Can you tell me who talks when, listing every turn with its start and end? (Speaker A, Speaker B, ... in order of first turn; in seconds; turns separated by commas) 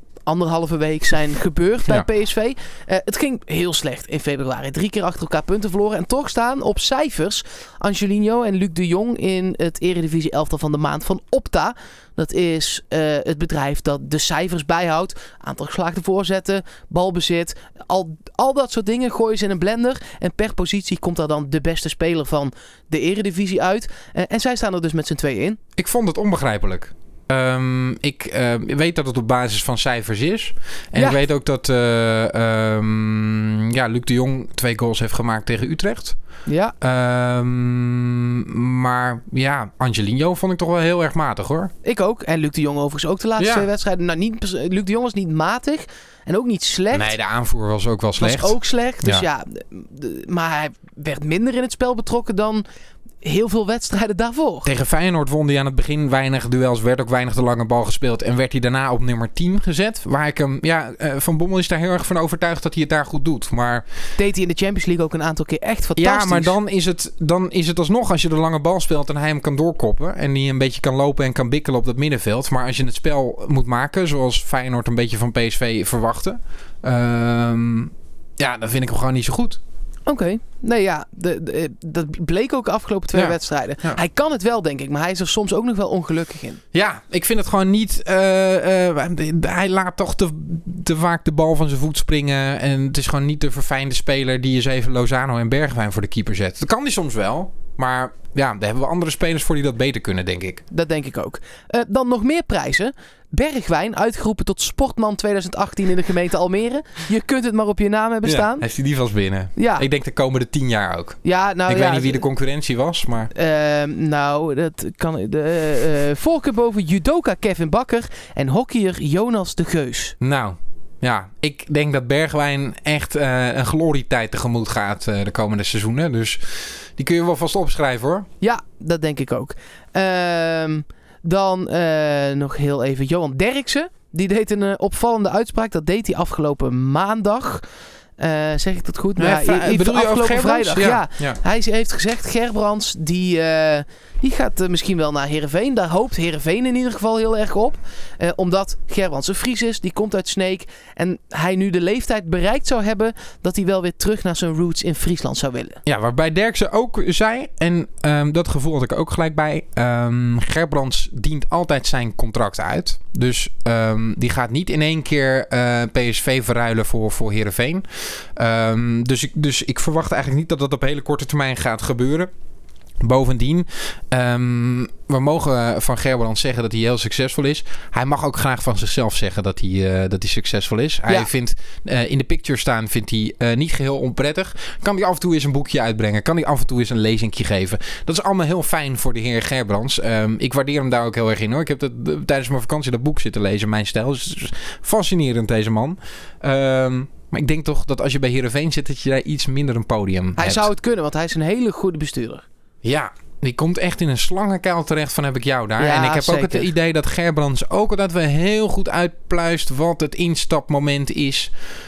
Speaker A: 0.3-25.6, Speaker B: 25.8-36.2, Speaker A: 30.9-31.2, Speaker A: 36.5-36.8, Speaker B: 36.8-41.7, Speaker A: 41.8-47.2, Speaker B: 43.4-43.7, Speaker B: 46.9-49.2, Speaker A: 48.2-52.6, Speaker A: 53.2-54.7, Speaker B: 54.6-63.9, Speaker A: 64.2-66.6, Speaker B: 66.0-79.6, Speaker A: 80.1-86.6, Speaker B: 83.1-84.0, Speaker B: 86.7-100.6, Speaker A: 100.7-108.7, Speaker B: 108.2-113.3, Speaker A: 109.6-109.8, Speaker A: 111.2-112.3, Speaker A: 113.3-120.2, Speaker B: 120.2-128.3, Speaker A: 128.4-137.7, Speaker A: 138.2-155.8, Speaker B: 139.2-141.4, Speaker B: 155.8-172.3, Speaker B: 173.0-200.7, Speaker A: 200.4-202.4, Speaker B: 202.8-211.5, Speaker A: 205.8-206.7